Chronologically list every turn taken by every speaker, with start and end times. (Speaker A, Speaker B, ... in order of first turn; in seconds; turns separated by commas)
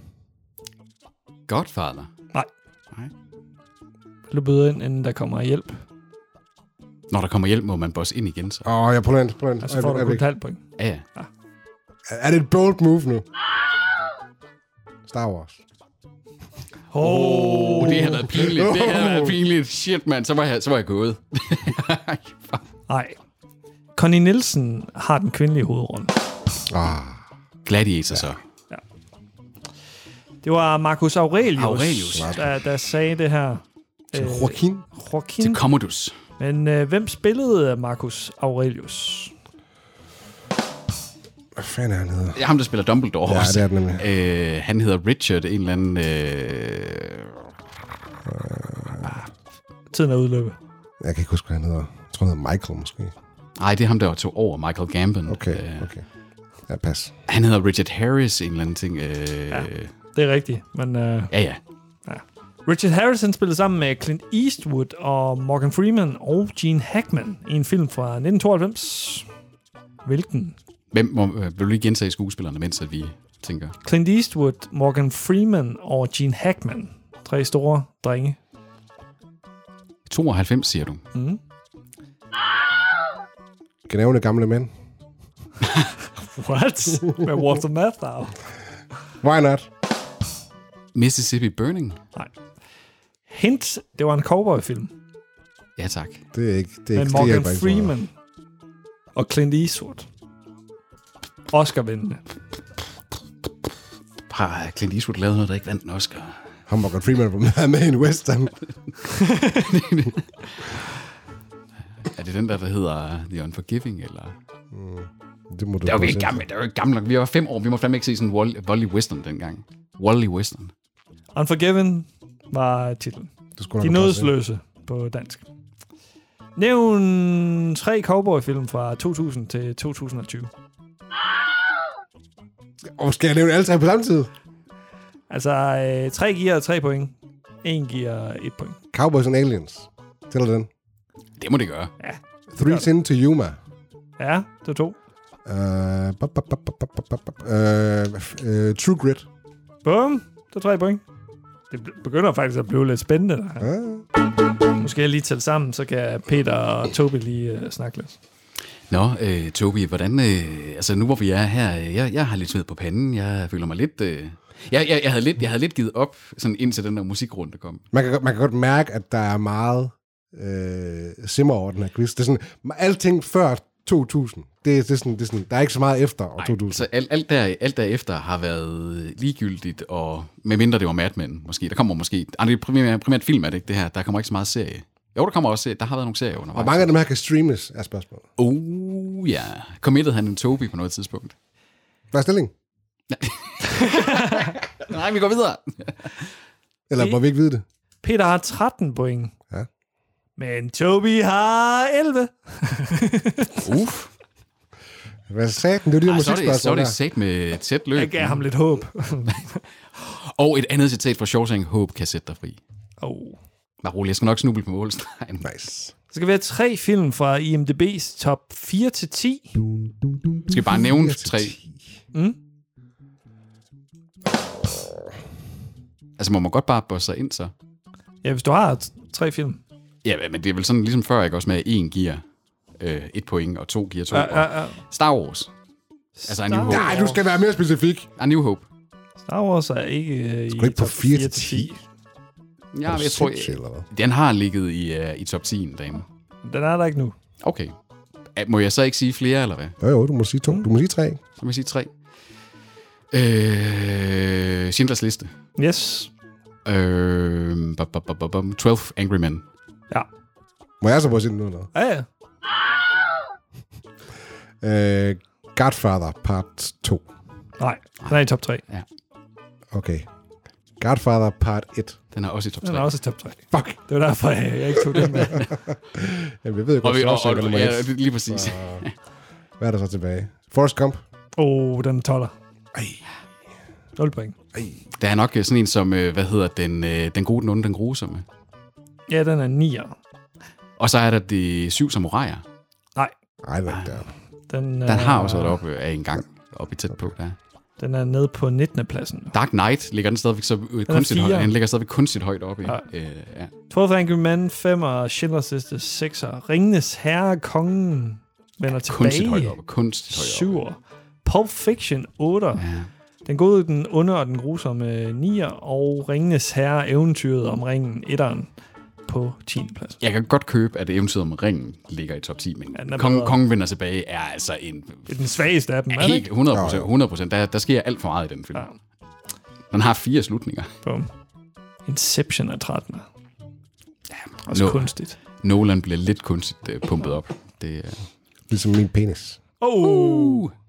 Speaker A: 1.5-2.1, Speaker B: 4.3-5.8, Speaker A: 7.1-8.7, Speaker C: 8.6-10.2, Speaker B: 9.6-10.6, Speaker A: 10.8-11.0, Speaker C: 12.1-13.2, Speaker C: 15.1-15.6, Speaker B: 16.9-18.4, Speaker A: 16.9-22.6, Speaker C: 17.9-19.4, Speaker B: 22.9-23.1, Speaker B: 23.9-26.1, Speaker C: 26.7-27.2, Speaker A: 27.6-28.4, Speaker B: 30.4-35.6, Speaker A: 31.6-32.4, Speaker C: 34.1-34.8, Speaker A: 35.4-36.1, Speaker B: 36.4-39.3, Speaker C: 41.5-42.4, Speaker A: 42.3-47.3, Speaker C: 43.2-44.0, Speaker C: 48.2-49.2, Speaker B: 49.9-50.6, Speaker C: 51.0-53.1, Speaker A: 53.6-55.9, Speaker C: 55.3-56.0, Speaker C: 56.7-57.1, Speaker A: 57.3-59.9, Speaker B: 59.5-61.3, Speaker A: 61.3-61.6, Speaker B: 62.1-69.3, Speaker B: 70.0-70.5, Speaker A: 70.9-73.8, Speaker B: 73.8-78.4, Speaker A: 80.1-81.0, Speaker B: 81.1-81.4, Speaker C: 83.9-84.7, Speaker B: 86.2-88.3, Speaker C: 89.2-89.7, Speaker A: 90.9-92.0, Speaker B: 93.3-94.9, Speaker A: 95.8-96.2, Speaker C: 96.3-97.9, Speaker B: 96.9-98.1, Speaker B: 99.2-100.0, Speaker B: 101.5-102.2, Speaker A: 104.3-106.4, Speaker C: 106.7-108.5, Speaker B: 109.2-109.7, Speaker A: 109.6-110.8, Speaker A: 112.1-114.3, Speaker C: 114.7-116.4, Speaker A: 115.8-120.7, Speaker B: 121.3-123.3, Speaker C: 123.6-124.3, Speaker B: 123.8-125.4, Speaker B: 126.5-130.5, Speaker C: 132.9-134.3, Speaker B: 135.3-138.8, Speaker C: 138.9-140.7, Speaker A: 141.4-141.9, Speaker B: 142.0-142.9, Speaker C: 142.5-143.6, Speaker B: 144.2-144.9, Speaker C: 145.4-149.2, Speaker B: 149.8-151.0, Speaker B: 151.7-153.7, Speaker C: 153.6-154.0, Speaker B: 154.8-158.2, Speaker A: 158.9-167.8, Speaker C: 167.9-176.8, Speaker A: 176.4-186.9, Speaker C: 186.5-188.2, Speaker A: 188.4-191.3, Speaker C: 192.1-192.5, Speaker A: 193.1-196.2, Speaker B: 193.8-194.5, Speaker C: 196.9-197.6, Speaker B: 198.0-199.3, Speaker B: 200.4-203.6, Speaker A: 203.6-204.1, Speaker C: 205.3-206.9, Speaker A: 206.1-208.4, Speaker B: 207.9-209.6, Speaker A: 210.1-212.6, Speaker B: 213.0-213.4, Speaker A: 213.8-215.5, Speaker C: 215.4-215.9, Speaker B: 216.1-219.5, Speaker C: 220.4-221.8, Speaker A: 220.5-221.6, Speaker A: 226.2-227.5, Speaker B: 228.2-229.6, Speaker A: 230.0-232.2, Speaker A: 232.8-235.5, Speaker B: 234.1-234.8, Speaker B: 236.2-237.2, Speaker A: 236.2-237.0, Speaker C: 236.7-238.1, Speaker A: 238.2-238.7, Speaker B: 239.2-241.8, Speaker C: 240.5-241.7, Speaker A: 242.7-246.0, Speaker C: 242.8-243.8, Speaker B: 246.4-247.2, Speaker A: 247.4-247.7, Speaker A: 248.3-249.8, Speaker C: 249.8-251.2, Speaker A: 251.4-251.9, Speaker A: 253.1-255.3, Speaker B: 255.6-256.1, Speaker A: 256.6-259.4, Speaker C: 260.8-261.7, Speaker B: 261.7-262.1, Speaker C: 264.6-267.1, Speaker B: 267.6-268.6, Speaker C: 269.7-270.1, Speaker C: 270.8-272.0, Speaker A: 272.1-272.9, Speaker B: 272.6-275.4, Speaker C: 273.5-273.8, Speaker C: 275.3-278.8, Speaker A: 276.8-278.9, Speaker C: 279.6-281.0, Speaker B: 281.4-282.3, Speaker C: 282.7-283.0, Speaker B: 284.0-284.4, Speaker A: 285.0-288.2, Speaker B: 289.1-289.9, Speaker A: 290.8-292.4, Speaker C: 293.4-294.1, Speaker A: 293.7-294.0, Speaker B: 294.5-295.6, Speaker A: 294.9-297.4, Speaker B: 297.8-299.3, Speaker A: 299.3-303.5, Speaker B: 300.9-301.5, Speaker B: 303.7-309.6, Speaker A: 308.9-310.6, Speaker B: 310.1-312.6, Speaker A: 312.6-312.9, Speaker B: 313.2-318.5, Speaker B: 319.1-320.0, Speaker A: 320.0-325.1, Speaker B: 322.7-323.4, Speaker B: 325.1-326.2, Speaker A: 325.9-328.7, Speaker C: 326.5-326.9, Speaker A: 329.7-330.7, Speaker B: 330.8-331.1, Speaker B: 331.9-333.1, Speaker B: 334.5-335.1, Speaker A: 334.5-334.9, Speaker A: 335.4-338.0, Speaker C: 338.5-339.4, Speaker B: 339.6-340.4, Speaker A: 339.8-340.5